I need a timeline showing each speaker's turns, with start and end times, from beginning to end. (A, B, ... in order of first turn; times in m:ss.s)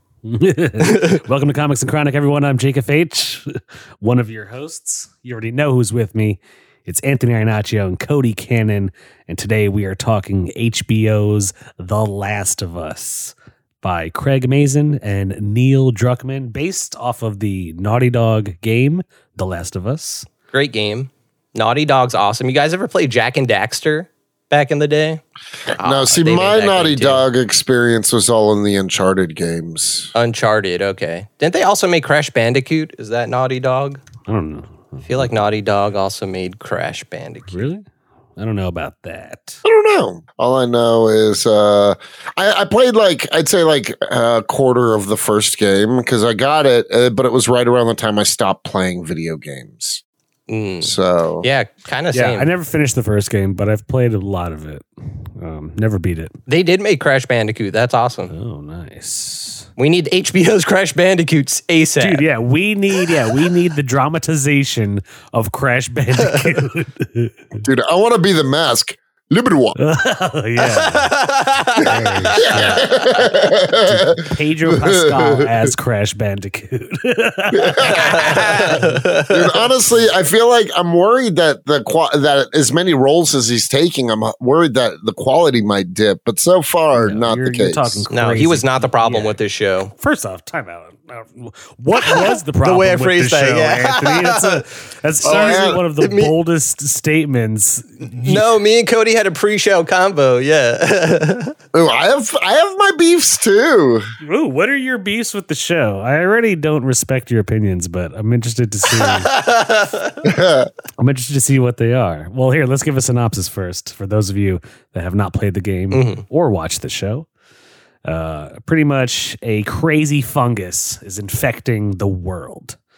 0:00.2-0:20.3 A
0:00.8-0:01.2 B
0:20.5-0:25.2 B
0:25.7-0:30.1 C
0:25.7-0:27.2 B
0:30.2-0:34.0 B
0:34.2-0:35.3 A
0:35.1-0:37.6 B
0:37.5-0:37.8 A
0:38.4-0:39.6 A
0:39.6-0:50.0 C
0:50.5-0:52.5 B
0:50.8-0:51.5 C
0:52.1-0:56.3 A
0:56.5-0:58.3 B
0:58.3-0:59.7 A
0:59.8-1:02.2 B
1:02.0-1:07.4 A
1:07.6-1:09.8 C
1:09.8-1:11.2 A
1:10.6-1:13.3 B
1:11.8-1:13.0 A
1:12.4-1:15.7 C
1:13.7-1:19.0 A
1:17.5-1:18.8 C
1:17.8-1:19.6 B
1:19.3-1:28.0 C
1:27.0-1:29.4 A
1:28.1-1:29.9 B
1:29.9-1:38.5 A
1:32.0-1:34.6 B
1:35.2-1:35.8 C
1:35.2-1:36.3 B
1:38.1-1:41.5 B
1:41.7-1:44.0 C
1:44.2-1:49.3 A
1:48.9-1:50.2 B
1:50.2-1:50.7 C
1:51.0-1:57.3 A
1:55.9-1:56.2 B
1:58.0-2:02.8 A